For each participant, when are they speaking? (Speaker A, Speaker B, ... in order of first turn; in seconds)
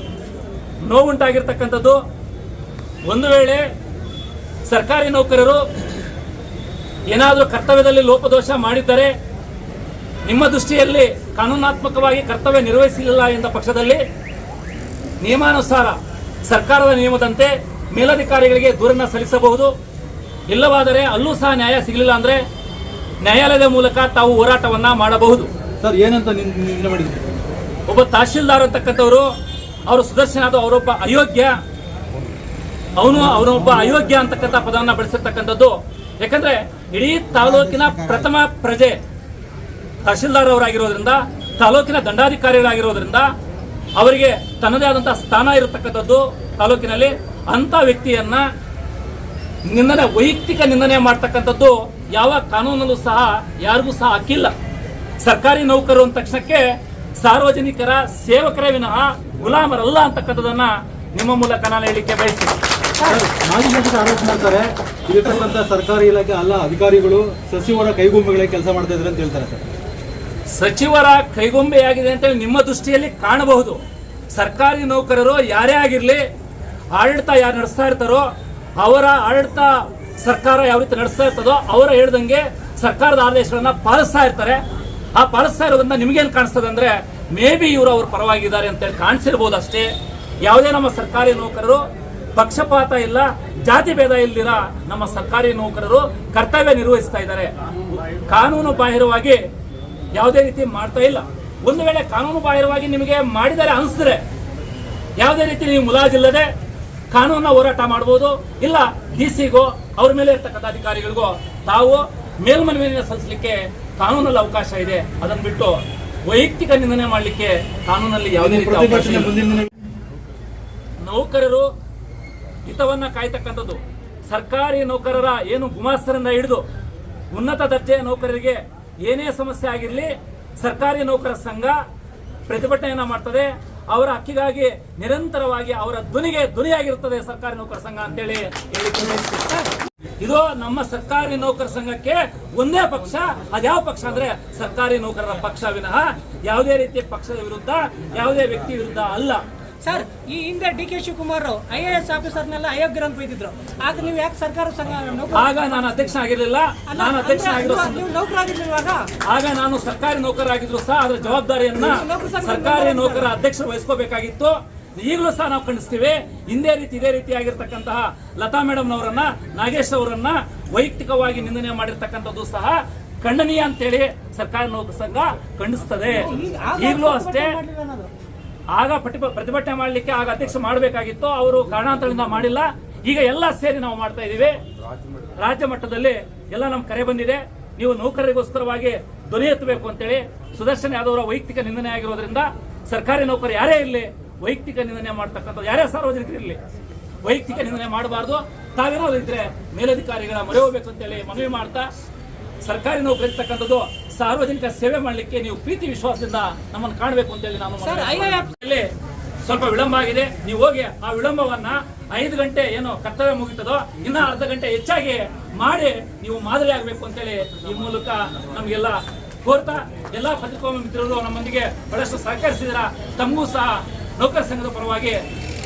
Speaker A: 0.8-2.0, 3.0-3.6, 4.6-5.6, 7.1-9.1, 10.2-14.0, 15.2-19.7, 20.5-22.4, 23.2-25.5, 27.9-29.3, 29.9-31.6, 33.0-39.0, 40.0-43.3, 44.0-48.5, 49.6-54.5, 55.2-56.6, 57.2-62.6, 70.5-73.8, 74.3-76.2, 76.9-84.6, 85.1-99.4, 100.1-104.2, 105.2-106.5, 107.1-119.4, 121.0-121.7, 122.7-126.6, 127.3-131.8, 132.5-149.4, 155.3-158.0, 159.2-177.6, 178.7-184.6, 185.4-196.6, 197.2-201.9, 202.6-208.9, 209.4-225.2
Speaker B: 25.8-27.3, 63.0-69.7, 118.4-119.7
Speaker C: 149.8-156.1, 156.9-159.1, 161.8-163.2, 176.2-178.1, 207.8-208.5